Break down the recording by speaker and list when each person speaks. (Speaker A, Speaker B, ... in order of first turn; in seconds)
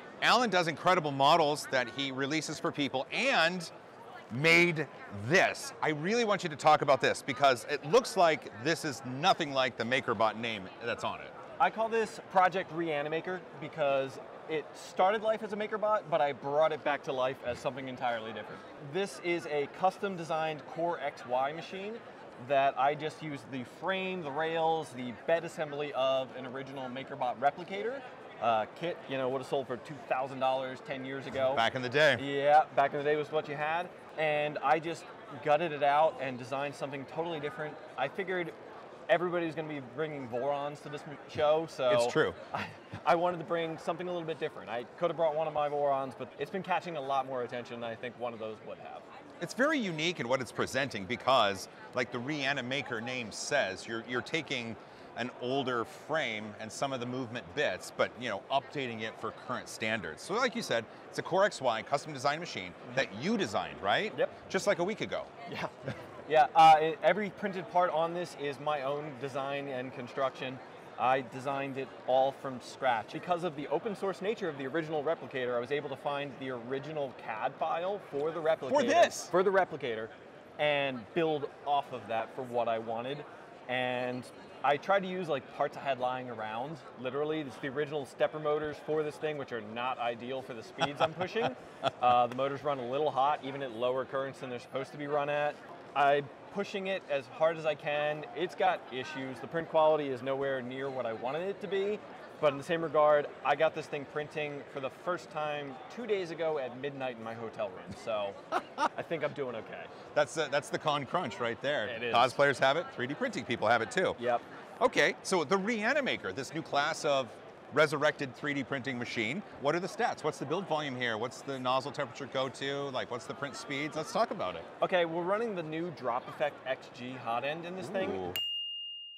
Speaker A: 0.2-3.7, 4.3-11.3, 31.5-32.2, 41.9-42.4, 49.4-65.3, 78.7-79.3, 110.1-114.2, 114.8-124.7, 128.0-128.3
Speaker B: 11.6-31.6, 32.1-38.5, 39.1-49.0, 65.5-110.0, 111.8-112.4, 114.2-114.4, 124.8-128.3